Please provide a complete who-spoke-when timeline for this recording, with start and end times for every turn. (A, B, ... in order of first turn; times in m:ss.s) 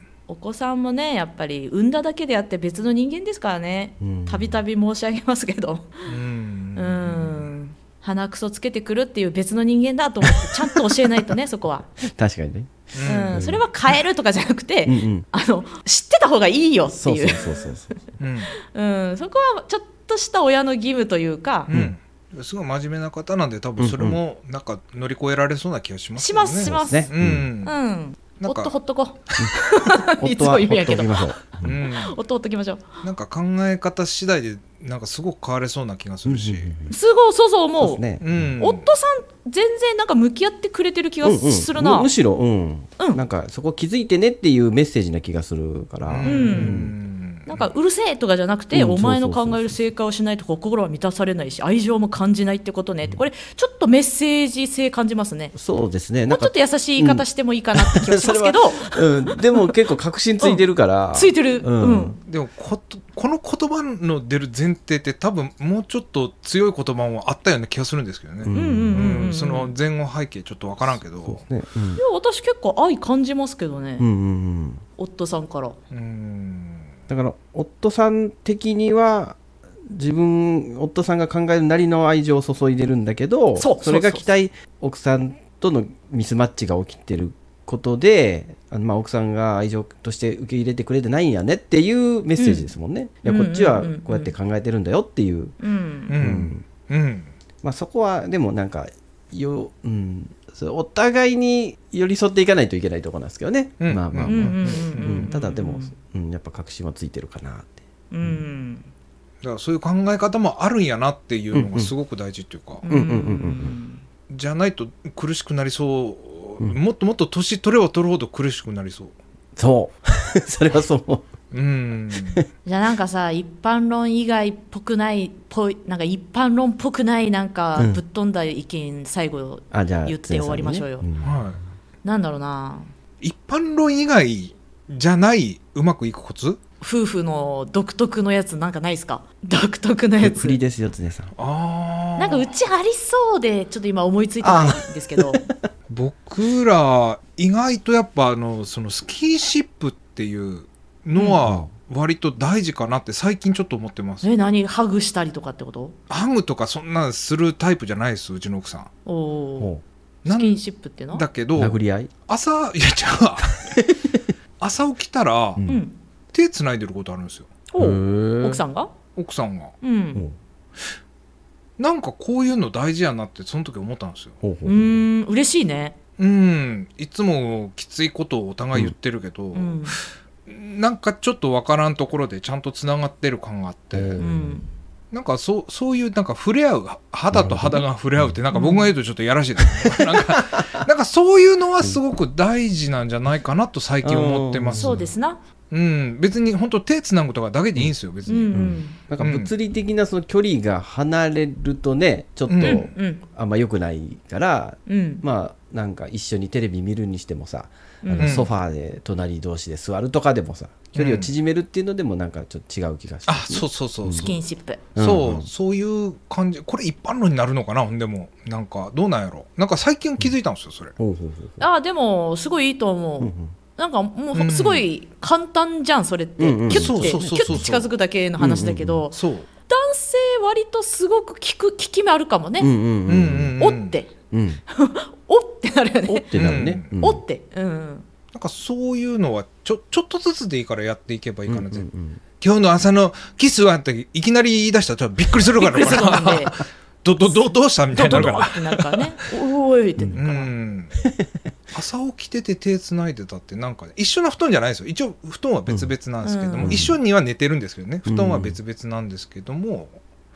0:00.3-0:06.1 A
0:04.0-0:04.6 B
0:06.1-0:07.5 C
0:06.7-0:11.9 A
0:10.4-0:10.8 B
0:12.0-0:13.6 B
0:12.9-0:13.4 C
0:13.0-0:17.6 A
0:14.8-0:15.2 B
0:16.9-0:17.9 B
0:18.2-0:18.5 C
0:18.6-0:21.7 A
0:21.7-0:27.8 C
0:23.8-0:24.2 B
0:26.2-0:27.1 A
0:26.6-0:27.5 B
0:27.6-0:33.0 A
0:28.4-0:28.7 C
0:30.2-0:31.8 B
0:31.6-0:32.2 C
0:33.0-0:36.7 C
0:36.2-0:36.9 B
0:36.9-0:38.0 A
0:37.8-0:38.5 B
0:38.2-0:38.8 C
0:38.6-0:42.1 A
0:41.2-0:46.9 B
0:46.1-0:47.6 C
0:46.2-0:46.8 A
0:47.4-0:55.5 A
0:48.7-0:49.7 B
0:55.5-1:02.2 B
0:56.3-0:59.7 A
1:00.4-1:02.2 A
1:02.3-1:11.4 C
1:08.4-1:09.2 B
1:08.5-1:09.7 A
1:10.9-1:12.0 B
1:12.0-1:14.0 A
1:14.0-1:14.8 B
1:15.0-1:15.8 A
1:15.9-1:16.9 C
1:17.1-1:35.6 B
1:23.6-1:24.2 A
1:32.4-1:32.7 A
1:33.2-1:34.3 A
1:35.6-1:36.1 A
1:36.1-1:37.3 C
1:36.2-1:36.6 B
1:37.6-1:48.4 B
1:43.8-1:45.3 C
1:44.2-1:45.9 A
1:48.1-1:48.9 A
1:49.4-1:52.8 C
1:51.5-1:51.9 B
1:52.8-1:54.0 A
1:52.8-1:53.7 B
1:54.3-1:59.1 C
1:59.6-2:01.3 B
2:01.5-2:02.4 C
2:02.6-2:11.0 A
2:09.7-2:11.4 B
2:11.2-2:11.6 C
2:12.0-2:12.9 A
2:13.2-2:16.6 C
2:16.8-2:20.6 A
2:20.2-2:21.3 B
2:21.4-2:22.5 C
2:22.2-2:25.4 A
2:24.4-2:25.5 B
2:25.9-2:34.3 C
2:34.2-2:35.9 A
2:36.1-2:38.9 C
2:39.0-2:39.7 A
2:40.2-2:40.6 C
2:40.2-2:41.2 A
2:41.1-2:43.8 C
2:41.6-2:42.1 B
2:43.7-2:44.2 B
2:44.6-2:45.6 C
2:45.6-2:45.8 B
2:45.6-2:46.0 A
2:46.3-2:47.5 C
2:47.7-2:48.9 A
2:47.8-2:48.6 B
2:49.2-2:49.8 C
2:49.8-2:50.2 A
2:51.8-2:54.4 C
2:54.4-2:55.0 B
2:54.6-2:55.9 A
2:56.2-3:04.2 C
2:59.5-3:00.0 A
3:03.9-3:04.6 B
3:04.2-3:04.7 A
3:05.1-3:15.0 C
3:07.3-3:08.4 B
3:08.5-3:08.9 A
3:09.6-3:10.4 B
3:14.0-3:15.0 B
3:14.8-3:15.4 A
3:15.7-3:18.6 C
3:18.3-3:19.0 A
3:18.5-3:34.3 B
3:19.2-3:19.5 C
3:22.5-3:22.8 C
3:22.6-3:23.2 A
3:24.9-3:25.2 A
3:28.0-3:28.5 A
3:28.2-3:28.5 C
3:30.9-3:31.3 C
3:33.3-3:34.4 C
3:34.2-3:34.8 A
3:34.9-3:35.5 B
3:34.9-3:40.9 C
3:41.0-3:41.6 B
3:41.6-3:49.2 A
3:43.2-3:43.5 B
3:44.3-3:44.8 C
3:46.4-3:47.6 B
3:46.7-3:47.9 C
3:48.4-3:49.0 B
3:49.1-3:49.5 C
3:49.7-3:52.7 A
3:52.6-3:53.5 B
3:53.0-3:54.0 C
3:53.6-3:54.1 A
3:54.3-3:54.6 B
3:54.7-3:56.4 A
3:56.1-3:57.2 B
3:56.3-3:56.9 C
3:56.9-3:58.0 A
3:58.3-4:01.9 C
4:01.5-4:02.2 B
4:02.4-4:09.1 C
4:05.6-4:06.6 A
4:07.2-4:10.5 A
4:10.1-4:11.0 C
4:11.0-4:11.3 B
4:11.7-4:20.0 C
4:16.2-4:16.9 A
4:16.6-4:17.0 B
4:18.0-4:18.6 B